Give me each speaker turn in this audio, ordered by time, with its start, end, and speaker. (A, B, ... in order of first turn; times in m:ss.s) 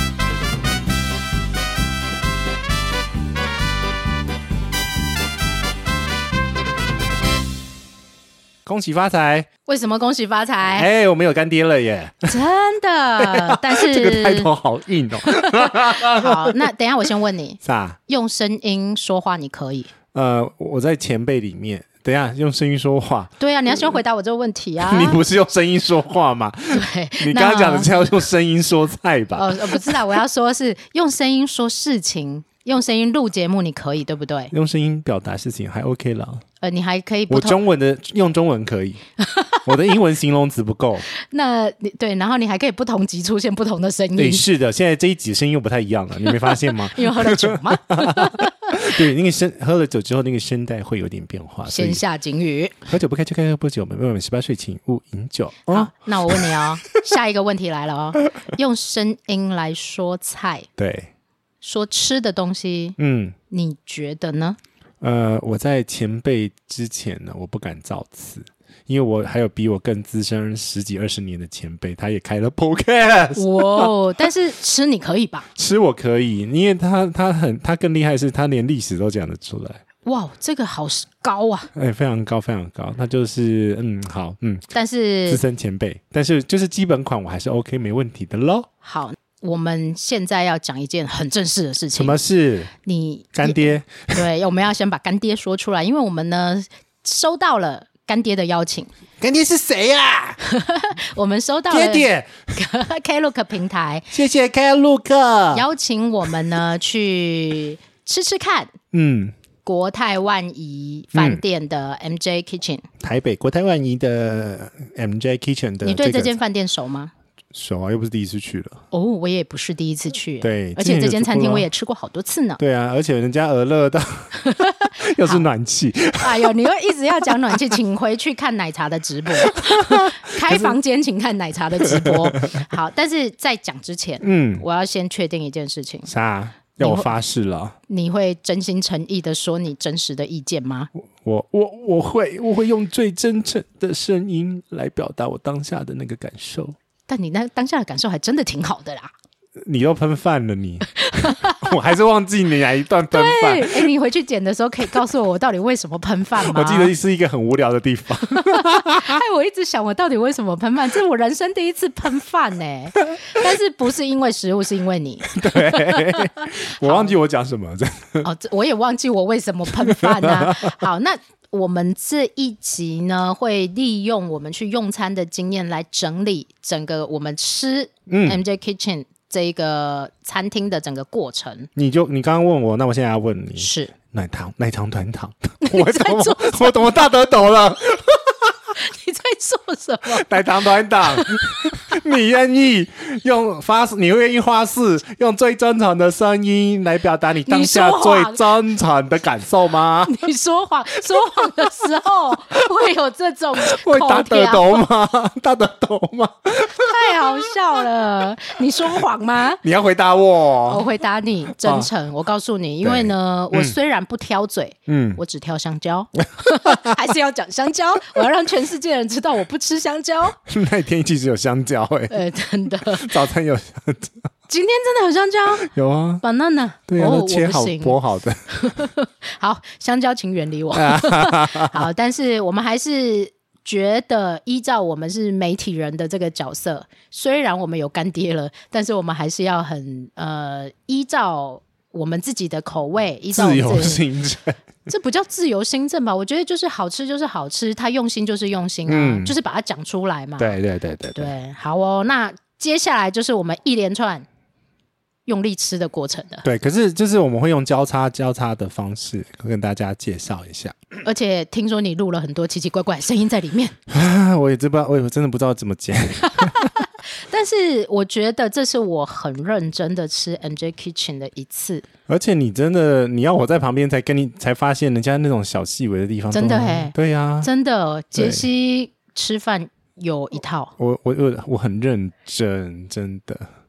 0:08.7-0:09.5 A
0:09.7-0:10.9 B
0:10.7-0:12.4 A
0:12.3-0:14.5 B
0:13.2-0:16.7 A
0:15.3-0:19.9 B
0:17.6-0:18.0 A
0:20.1-0:23.3 A
0:23.4-0:25.2 B
0:24.8-0:30.0 A
0:26.7-0:28.0 B
0:29.4-0:34.5 B
0:34.5-0:36.4 A
0:36.6-0:37.6 B
0:37.3-0:39.0 A
0:39.2-0:39.7 B
0:39.7-0:41.0 A
0:41.1-0:44.4 B
0:44.2-0:52.0 A
0:46.8-0:48.7 B
0:51.7-0:52.8 B
0:52.9-0:56.6 A
0:55.7-1:00.7 B
1:00.8-1:01.1 A
1:01.6-1:03.0 B
1:03.0-1:03.4 A
1:03.5-1:04.6 B
1:05.0-1:13.9 A
1:13.4-1:15.5 B
1:15.6-1:19.8 A
1:20.0-1:21.7 B
1:21.8-1:24.7 A
1:24.7-1:25.4 B
1:25.3-1:28.7 A
1:28.8-1:32.2 B
1:32.0-1:32.7 A
1:32.8-1:38.9 B
1:33.3-1:34.2 A
1:39.2-1:40.4 A
1:40.5-1:44.1 B
1:41.7-1:42.3 A
1:44.1-1:45.7 A
1:45.5-1:48.8 B
1:48.9-1:49.3 A
1:49.6-1:52.9 B
1:51.1-1:51.4 A
1:53.0-1:56.4 A
1:55.8-1:57.1 B
1:57.5-1:58.8 A
1:58.9-2:02.6 B
2:00.4-2:01.7 A
2:02.6-2:06.5 A
2:04.4-2:05.4 B
2:06.2-2:16.1 B
2:09.4-2:10.8 A
2:11.8-2:12.6 A
2:14.2-2:14.6 A
2:16.1-2:17.8 A
2:16.8-2:17.1 B
2:17.9-2:20.9 B
2:21.2-2:26.8 A
2:27.1-2:29.1 B
2:29.6-2:33.9 A
2:31.0-2:31.7 B
2:33.1-2:36.9 B
2:36.4-2:39.2 A
2:38.4-2:47.2 B
2:45.3-2:48.3 A
2:48.2-3:01.7 B
2:49.8-2:50.7 A
2:58.1-2:58.4 A
3:01.8-3:08.5 A
3:03.6-3:03.9 B
3:05.6-3:07.0 B
3:08.8-3:10.4 B
3:10.1-3:20.3 A
3:11.0-3:11.7 B
3:17.5-3:18.4 B
3:20.1-3:24.8 B
3:21.4-3:21.7 A
3:23.6-3:27.2 A
3:26.7-3:29.6 B
3:29.6-3:30.8 A
3:30.7-3:40.4 B
3:31.6-3:31.9 A
3:32.8-3:33.8 A
3:34.9-3:35.2 A
3:36.4-3:37.0 A
3:40.5-3:42.2 A
3:42.1-3:43.2 B
3:42.8-3:44.2 A
3:44.5-3:45.7 B
3:45.6-3:46.2 A
3:46.2-3:48.0 B
3:46.9-3:48.5 A
3:48.6-4:04.0 B
3:50.7-3:51.8 A
4:03.3-4:04.6 A
4:04.9-4:10.6 B
4:08.9-4:09.3 A
4:10.4-4:11.3 A
4:11.2-4:14.3 B
4:15.3-4:16.5 B
4:16.4-4:20.8 A
4:21.0-4:23.8 B
4:23.9-4:26.8 A
4:26.2-4:31.9 B
4:32.1-4:37.5 A
4:36.3-4:40.7 B
4:38.2-4:38.5 A
4:40.8-4:43.5 A